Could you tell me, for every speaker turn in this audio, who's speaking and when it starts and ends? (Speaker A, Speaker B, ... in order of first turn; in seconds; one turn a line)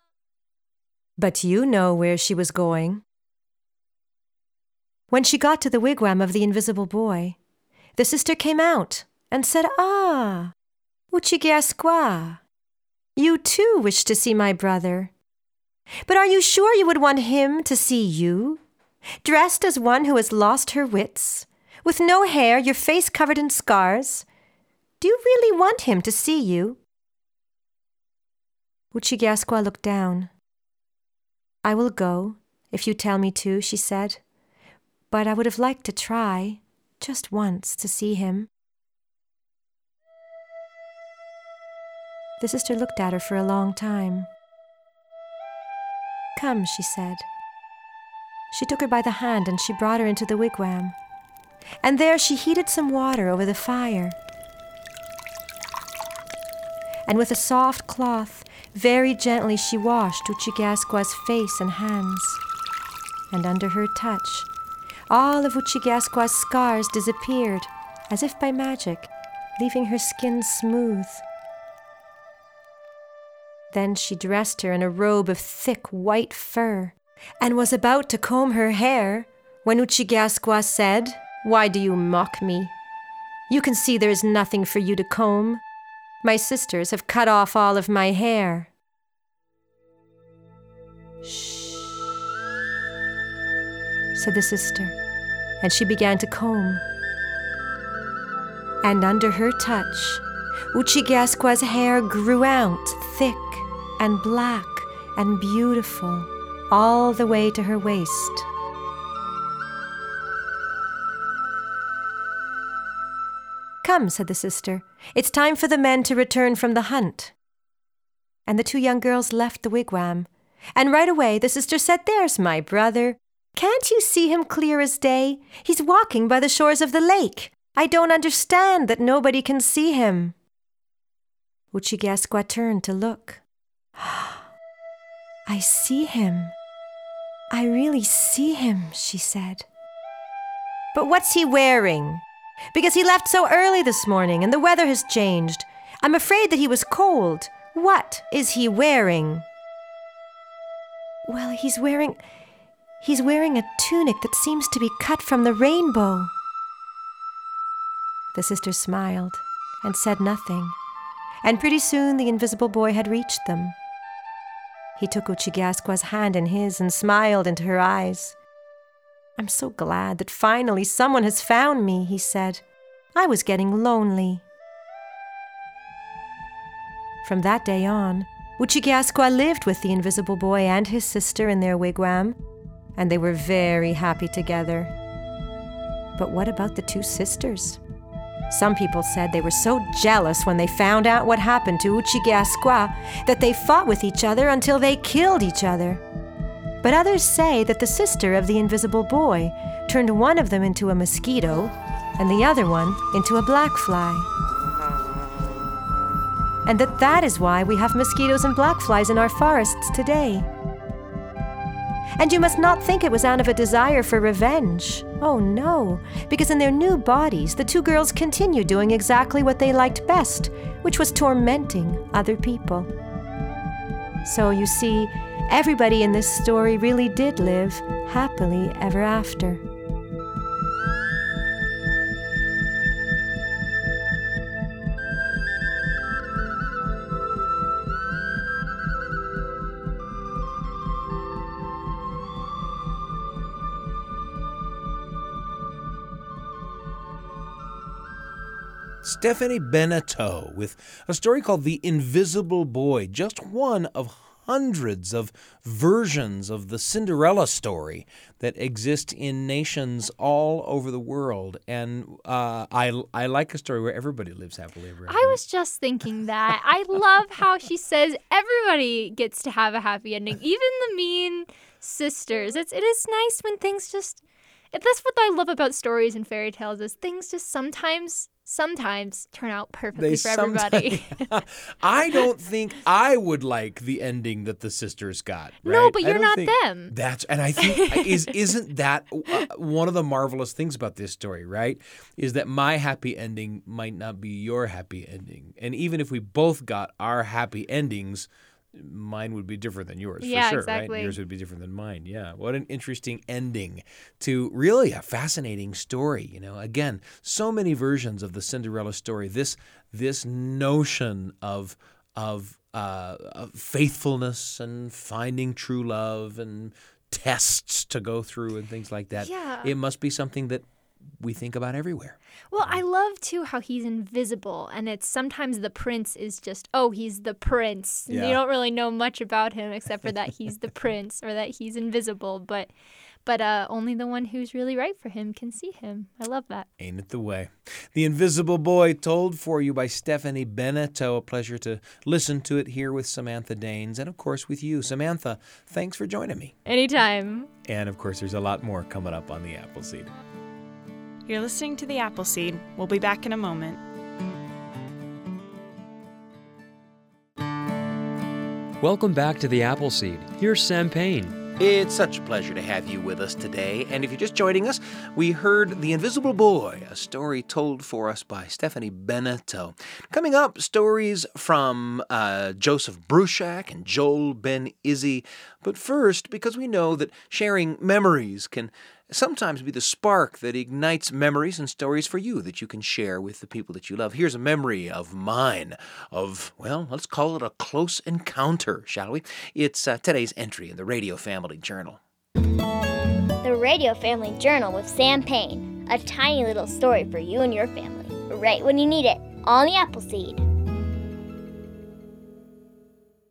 Speaker A: 1.2-3.0
Speaker A: 5.1-7.4
Speaker A: 8.0-10.5
Speaker A: 11.1-12.4
Speaker A: 13.2-15.1
Speaker A: 16.1-18.6
Speaker A: 19.2-24.3
Speaker A: 25.0-26.8
Speaker A: 28.9-30.3
Speaker A: 31.6-34.2
Speaker A: 35.1-38.5
Speaker A: 42.4-44.3
Speaker A: 46.4-47.3
Speaker A: 48.5-51.0
Speaker A: 51.8-54.2
Speaker A: 57.1-62.4
Speaker A: 63.3-64.5
Speaker A: 65.1-71.2
Speaker A: 73.7-82.7
Speaker A: 83.5-85.6
Speaker A: 86.2-88.7
Speaker A: 91.2-92.1
Speaker A: 94.2-95.0
Speaker A: 95.6-96.8
Speaker A: 98.8-108.5
Speaker A: 113.8-117.3
Speaker A: 118.5-130.3
Speaker A: 131.7-133.4
Speaker A: 134.0-134.4
Speaker A: 135.5-136.6
Speaker A: 137.5-139.7
Speaker A: 140.9-142.2
Speaker A: 142.7-149.4
Speaker A: 151.3-152.2
Speaker A: 153.0-156.3
Speaker A: 158.3-160.8
Speaker A: 161.4-163.8
Speaker A: 165.0-168.4
Speaker A: 169.4-172.6
Speaker A: 173.2-174.4
Speaker A: 177.2-182.4
Speaker A: 183.0-184.9
Speaker A: 186.2-187.8
Speaker A: 188.5-196.0
Speaker A: 196.8-204.3
Speaker A: 206.7-210.5
Speaker A: 212.2-222.9
Speaker A: 224.2-229.6
Speaker B: 249.0-265.4
Speaker C: 265.1-274.2
Speaker C: 274.7-281.2
Speaker B: 280.0-320.6
Speaker C: 285.6-286.9
Speaker C: 287.6-288.3
Speaker C: 300.2-301.2
Speaker C: 319.2-319.7
Speaker B: 321.2-322.7
Speaker C: 322.5-332.7
Speaker B: 328.1-328.4
Speaker C: 333.2-336.7
Speaker B: 336.8-346.5
Speaker C: 346.7-347.5
Speaker B: 347.6-350.1
Speaker D: 351.3-353.8
Speaker E: 358.8-361.4
Speaker B: 361.6-392.0
Speaker F: 393.4-400.4